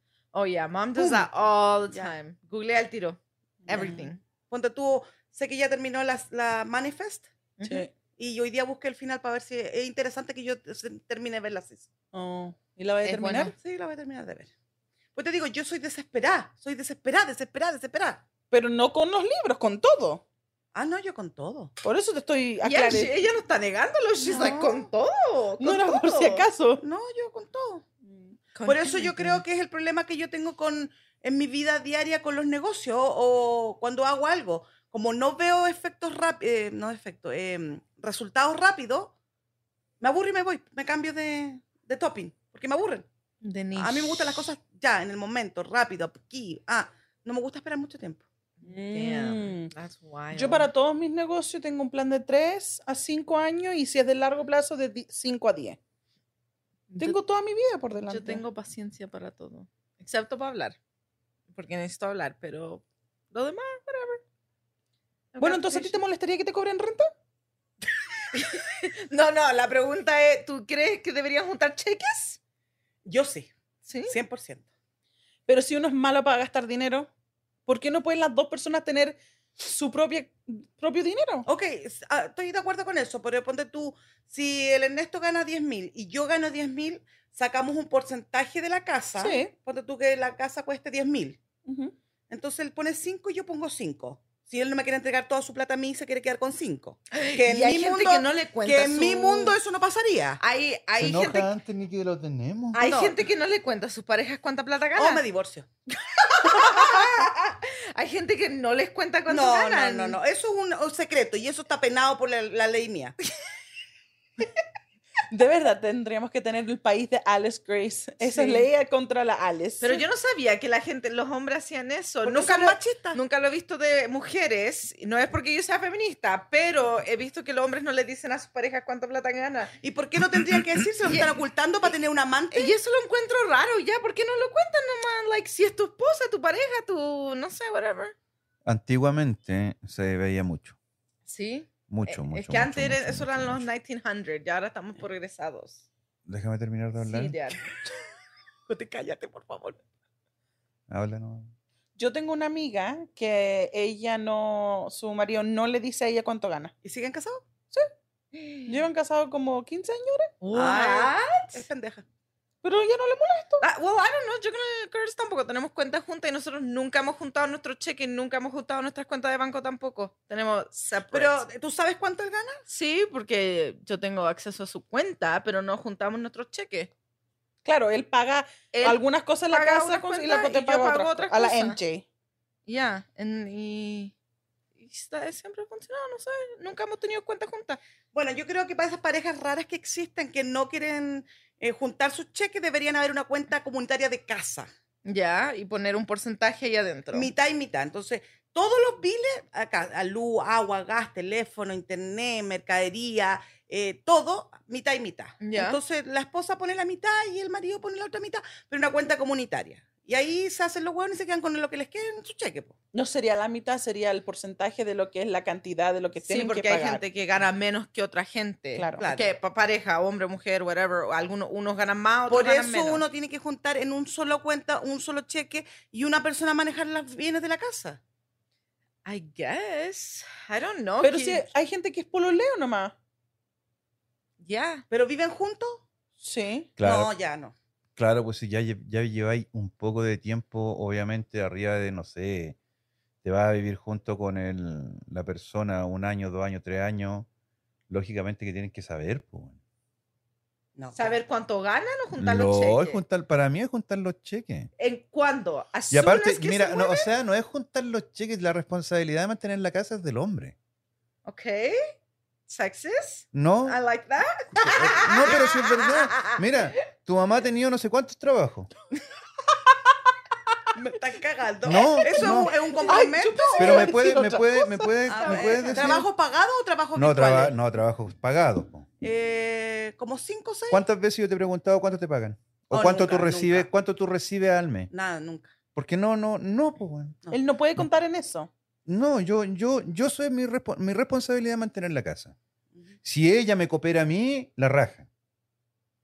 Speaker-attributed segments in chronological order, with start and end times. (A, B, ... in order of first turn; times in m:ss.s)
0:00.3-0:04.2 A
0:01.0-0:01.3 B
0:03.6-0:04.0 C
0:04.5-0:07.3 B
0:07.6-0:07.9 A
0:07.6-0:07.9 C
0:08.1-0:11.9 B
0:12.1-0:13.5 C
0:13.0-0:13.5 A
0:13.6-0:14.5 B
0:15.2-0:18.2 B
0:18.5-0:20.2 C
0:20.7-0:21.7 B
0:21.8-0:23.1 C
0:22.6-0:26.5 A
0:24.3-0:24.9 B
0:25.6-0:26.8 C
0:26.8-0:27.8 B
0:28.1-0:28.4 C
0:28.6-0:29.4 A
0:28.7-0:39.1 B
0:40.0-0:43.1 B
0:43.4-0:44.2 A
0:43.8-0:48.2 B
0:48.6-0:50.7 A
0:48.6-0:49.7 C
0:50.3-0:55.8 C
0:56.9-0:57.2 A
0:57.0-0:58.4 C
0:58.1-1:00.8 A
1:01.5-1:04.2 A
1:05.3-1:06.0 A
1:05.4-1:07.1 C
1:08.3-1:12.4 A
1:13.0-1:13.5 B
1:13.9-1:14.1 A
1:14.1-1:14.6 B
1:15.5-1:17.1 C
1:17.7-1:21.5 C
1:21.5-1:31.4 B
1:29.2-1:29.5 C
1:31.7-1:31.9 C
1:32.3-1:40.4 B
1:37.1-1:39.6 A
1:40.4-1:41.5 A
1:41.0-1:42.8 D
1:42.7-1:43.2 B
1:42.7-1:45.2 A
1:45.0-1:45.7 B
1:46.1-1:50.2 A
1:46.4-1:47.3 B
1:49.3-1:53.2 B
1:55.3-2:00.0 C
1:58.2-1:58.7 A
1:59.8-2:09.7 A
2:02.2-2:03.2 B
2:09.8-2:12.8 B
2:12.5-2:18.1 A
2:18.6-2:20.8 D
2:21.3-2:25.8 A
2:21.9-2:23.6 D
2:26.3-2:27.4 D
2:27.0-2:27.6 A
2:28.7-2:29.8 B
2:30.9-2:31.5 D
2:32.0-2:36.7 C
2:36.8-2:37.4 B
2:38.3-2:38.8 A
2:38.7-2:40.3 C
2:40.4-2:41.6 A
2:40.5-2:42.0 B
2:42.6-2:43.7 C
2:43.6-2:51.5 A
2:51.1-2:52.6 B
2:52.7-2:56.9 A
2:57.6-3:02.0 C
2:58.7-3:01.8 A
3:02.7-3:04.1 A
3:04.8-3:07.8 A
3:08.1-3:14.7 B
3:15.0-3:17.3 A
3:17.1-3:32.7 B
3:25.4-3:25.8 A
3:32.9-3:37.0 C
3:36.2-3:43.0 A
3:38.8-3:39.0 C
3:39.0-3:39.3 B
3:42.3-3:48.0 B
3:49.0-3:51.5 A
3:51.0-3:53.0 C
3:54.4-3:54.8 A
3:54.9-3:55.8 B
3:56.2-3:56.7 C
3:56.8-3:57.1 D
3:56.8-3:57.5 B
3:58.0-4:02.6 D
4:03.2-4:07.3 D
4:07.9-4:09.6 D
4:10.8-4:11.1 B
4:10.9-4:13.0 A
4:12.2-4:14.7 D
4:14.8-4:17.1 A
4:15.9-4:20.6 D
4:21.2-4:22.0 A
4:22.5-4:26.5 A
4:23.3-4:23.8 D
4:24.6-4:28.7 D
4:30.8-4:34.0 B
4:31.6-4:32.5 D
4:32.0-4:36.0 C
4:33.6-4:36.0 D
4:35.1-4:37.6 B
4:37.0-4:38.9 D
4:39.0-4:40.8 B
4:40.7-4:44.9 D
4:42.7-4:43.7 B
4:44.9-4:45.5 B
4:45.8-4:47.2 D
4:47.3-4:48.5 C
4:48.9-4:52.4 D
4:53.0-4:55.1 D